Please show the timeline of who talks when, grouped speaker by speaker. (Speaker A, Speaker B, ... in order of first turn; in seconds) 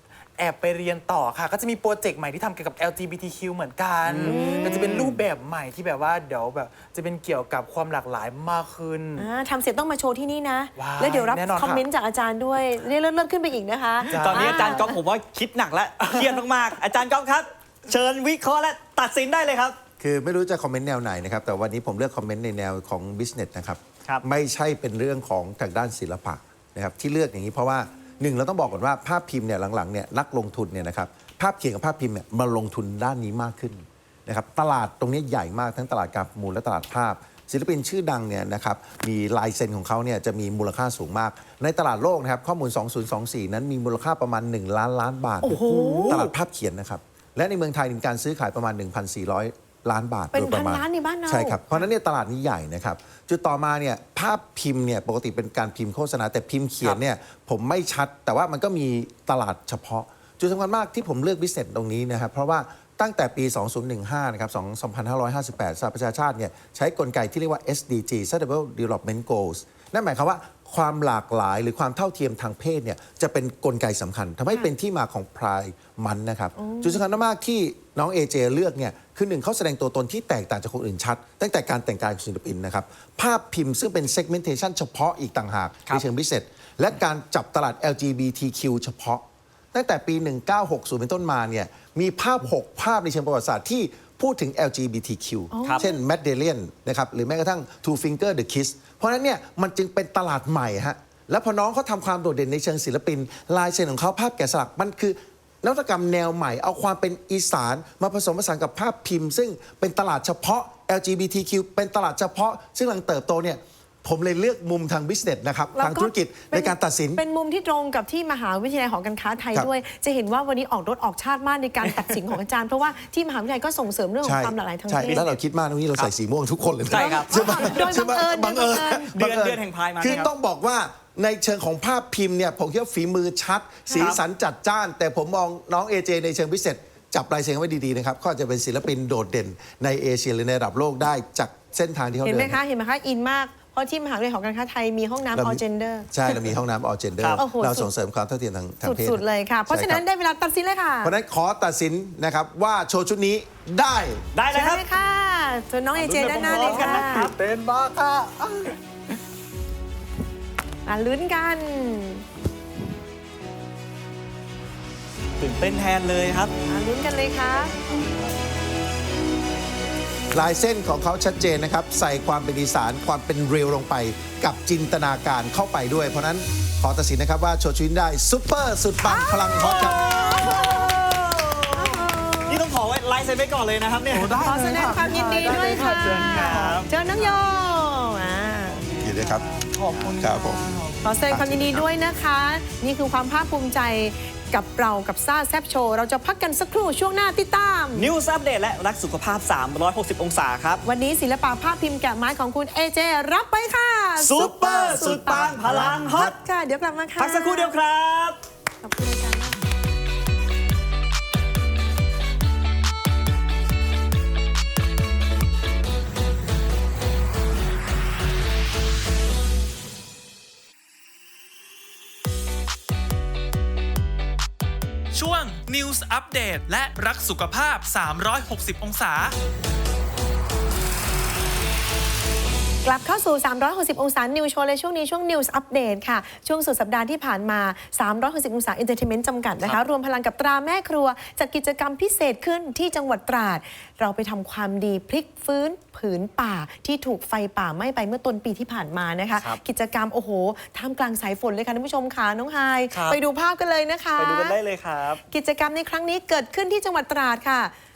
Speaker A: 0.4-9.3, 10.8-11.8, 14.1-14.9, 16.0-16.4, 156.4-158.8, 184.1-187.4, 188.9-191.0
Speaker B: 4.0-5.0, 14.1-19.8, 46.0-46.3, 121.8-122.2, 125.0-125.4, 126.9-128.0, 129.1-130.3, 133.9-134.2, 154.3-154.8, 155.9-157.3, 165.4-166.5, 167.9-168.3, 179.6-184.4, 185.4-186.9, 197.9-200.8, 204.2-206.3, 207.2-208.4, 252.9-253.2, 254.2-255.2
Speaker C: 4.2-5.1, 9.2-15.0, 45.4-46.2, 50.3-51.9, 76.5-77.1, 95.5-96.0, 115.7-125.2, 126.9-129.1, 142.2-146.1, 147.4-147.9, 148.8-151.1, 154.5-157.3, 160.8-162.2, 166.7-167.7, 179.0-181.0, 181.7-182.6, 184.4-188.9, 191.0-198.1, 200.8-207.7, 208.8-209.6, 232.8-254.6, 255.3-257.7
Speaker D: 20.0-117.2, 124.2-142.6, 145.3-150.0, 151.0-154.2, 170.3-180.0, 189.0-189.5, 190.2-190.6, 191.3-191.8
Speaker E: 225.1-229.3